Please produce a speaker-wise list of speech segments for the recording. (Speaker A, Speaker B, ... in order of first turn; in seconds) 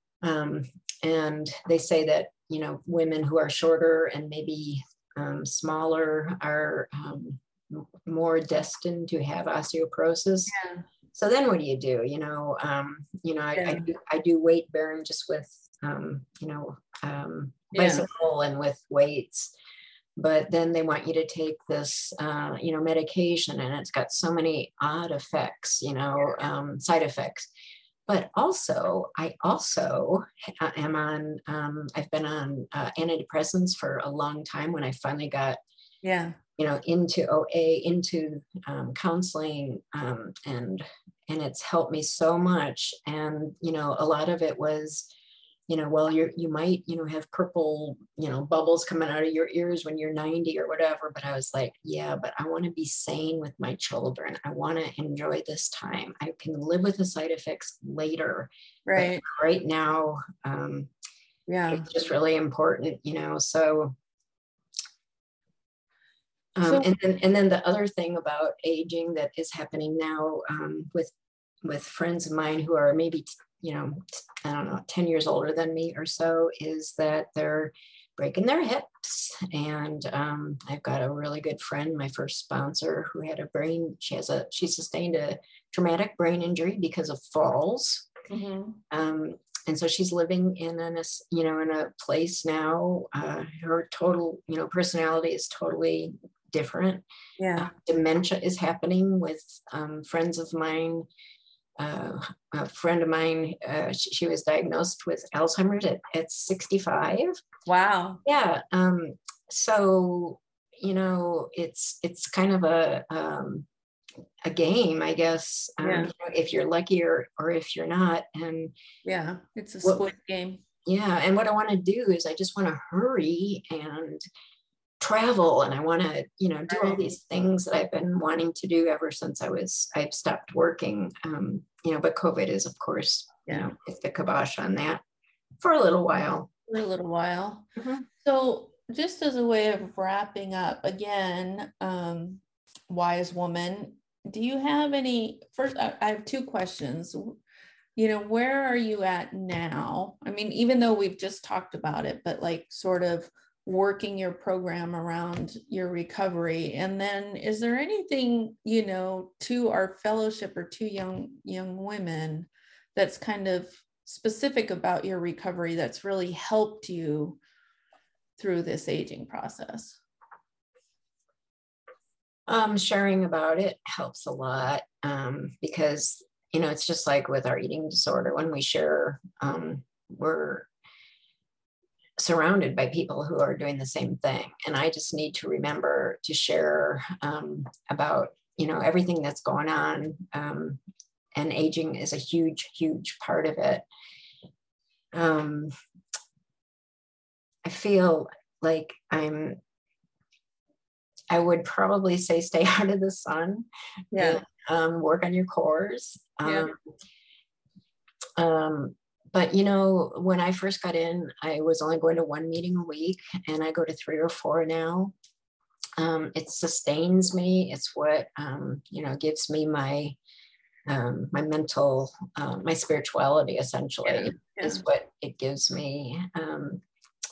Speaker A: 0.2-10.5, 11.1-19.5, 20.2-27.4, 28.1-35.6, 36.6-45.0, 45.7-60.9, 61.7-64.0, 66.6-71.1, 71.6-88.1, 88.9-97.0, 97.6-101.1, 101.8-107.3, 108.2-113.7, 114.4-118.7, 120.9-124.2, 125.0-135.0, 135.6-136.5, 137.8-138.0, 172.5-180.7, 182.2-190.8, 191.3-193.8, 195.1-195.7, 197.6-199.6, 201.3-206.8, 208.4-215.2, 216.0-220.2, 220.9-226.8
Speaker B: 10.5-10.8, 13.6-13.9, 17.7-18.1, 36.0-36.4, 58.9-59.2, 61.5-61.9, 88.3-88.8, 97.4-97.7, 107.7-108.2, 115.8-116.1, 119.0-120.6, 126.7-127.1, 133.5-133.7, 136.7-137.7, 138.2-147.4, 148.0-167.4, 168.4-170.0, 204.1-204.4, 206.4-206.7, 224.1-224.8